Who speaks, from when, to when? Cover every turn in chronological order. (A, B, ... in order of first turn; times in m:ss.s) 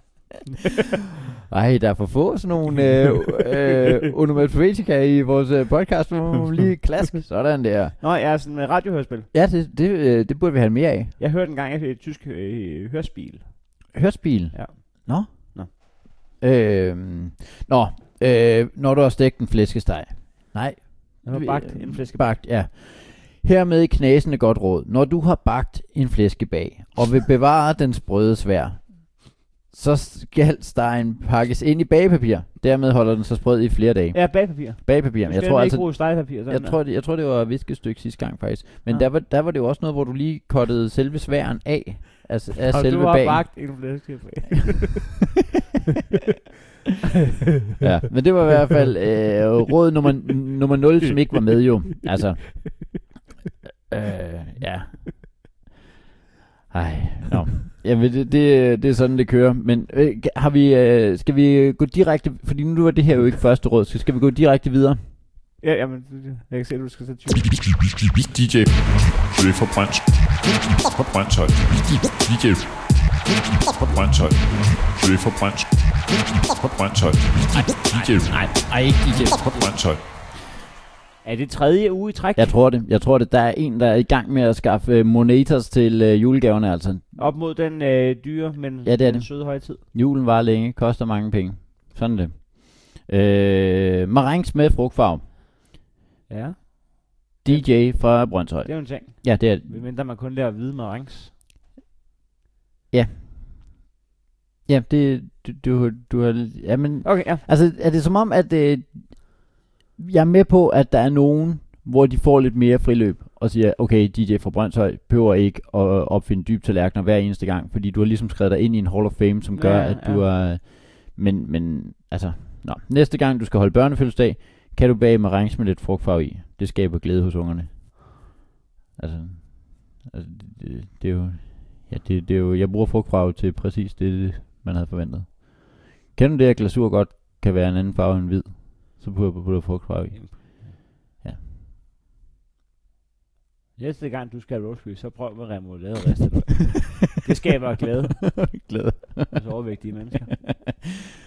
0:01.5-0:08.0 A
0:08.0-0:09.3 B
0:09.3-0:11.1 A
0:11.2-0:13.9 B
0:13.9-0:15.8 A
0:14.5-0:15.7 B
0:16.4-0:43.7 A
0:21.2-0:22.4 B
0:34.1-0:36.8 B
0:42.5-0:45.2 B
0:47.8-0:53.1 A
0:53.9-0:55.4 A
0:56.7-1:05.0 A
1:05.6-1:07.5 B
1:08.2-1:20.0 C
1:17.9-1:18.5 B
1:18.4-1:19.6 A
1:21.2-1:22.6 B
1:22.4-1:27.1 A
1:27.2-1:29.8 B
1:28.8-1:35.2 A
1:36.3-1:41.3 B
1:37.4-1:39.8 A
1:42.9-1:43.8 A
1:44.7-2:08.2 A
1:47.0-1:47.4 B
1:59.5-2:00.2 B
2:09.0-2:21.4 A
2:20.1-2:20.8 B
2:23.8-2:28.5 B
2:28.2-2:29.5 A
2:29.3-2:30.3 B